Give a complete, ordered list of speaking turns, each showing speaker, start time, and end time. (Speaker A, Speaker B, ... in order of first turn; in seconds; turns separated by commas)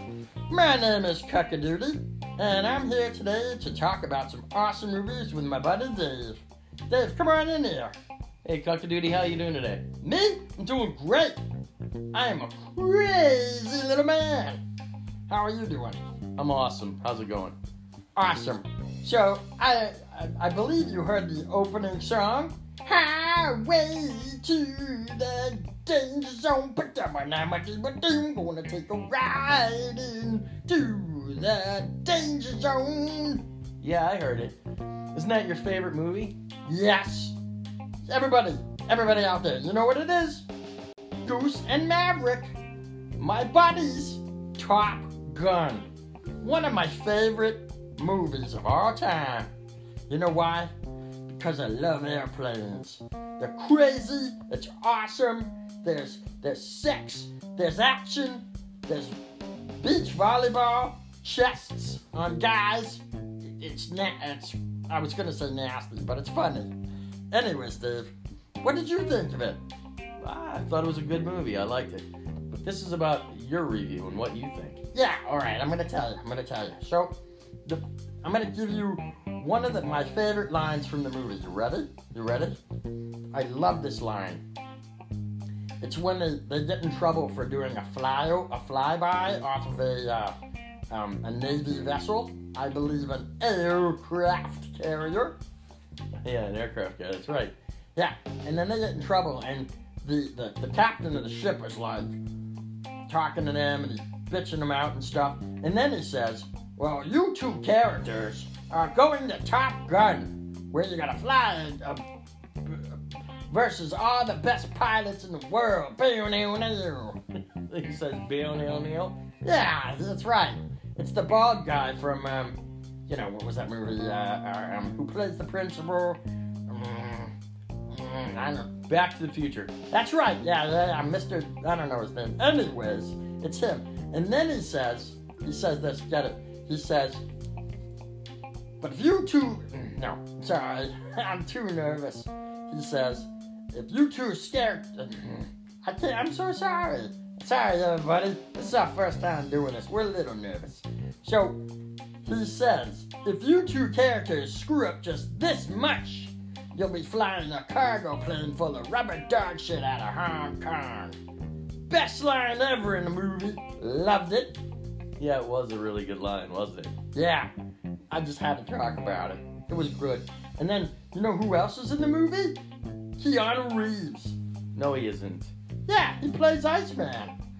Speaker A: 0.5-8.0, Speaker B: 8.4-9.9, Speaker A: 9.9-11.4, Speaker A: 12.1-14.6, Speaker A: 15.3-16.0, Speaker B: 16.4-17.6, Speaker A: 18.1-33.5, Speaker B: 33.8-34.6, Speaker B: 35.1-36.4, Speaker A: 36.7-37.4, Speaker A: 38.0-40.5, Speaker A: 41.2-42.5, Speaker A: 43.2-45.9, Speaker A: 46.4-49.5, Speaker A: 50.1-50.7, Speaker A: 51.3-59.2, Speaker A: 59.8-66.7, Speaker A: 67.3-69.6, Speaker B: 70.2-74.8, Speaker A: 74.9-82.6, Speaker A: 83.3-84.4, Speaker A: 85.8-90.3, Speaker A: 90.9-95.4, Speaker B: 96.2-97.5, Speaker A: 98.0-102.2, Speaker A: 103.1-112.0, Speaker A: 112.6-117.2, Speaker B: 117.7-119.2, Speaker A: 119.2-127.3, Speaker A: 127.9-128.9, Speaker B: 128.9-129.8, Speaker A: 129.8-137.2, Speaker A: 138.8-151.6, Speaker A: 152.2-161.2, Speaker A: 161.9-164.6, Speaker B: 165.2-166.9, Speaker A: 167.1-167.5, Speaker A: 168.1-172.6, Speaker A: 173.2-174.3, Speaker B: 174.7-175.5, Speaker A: 175.9-177.3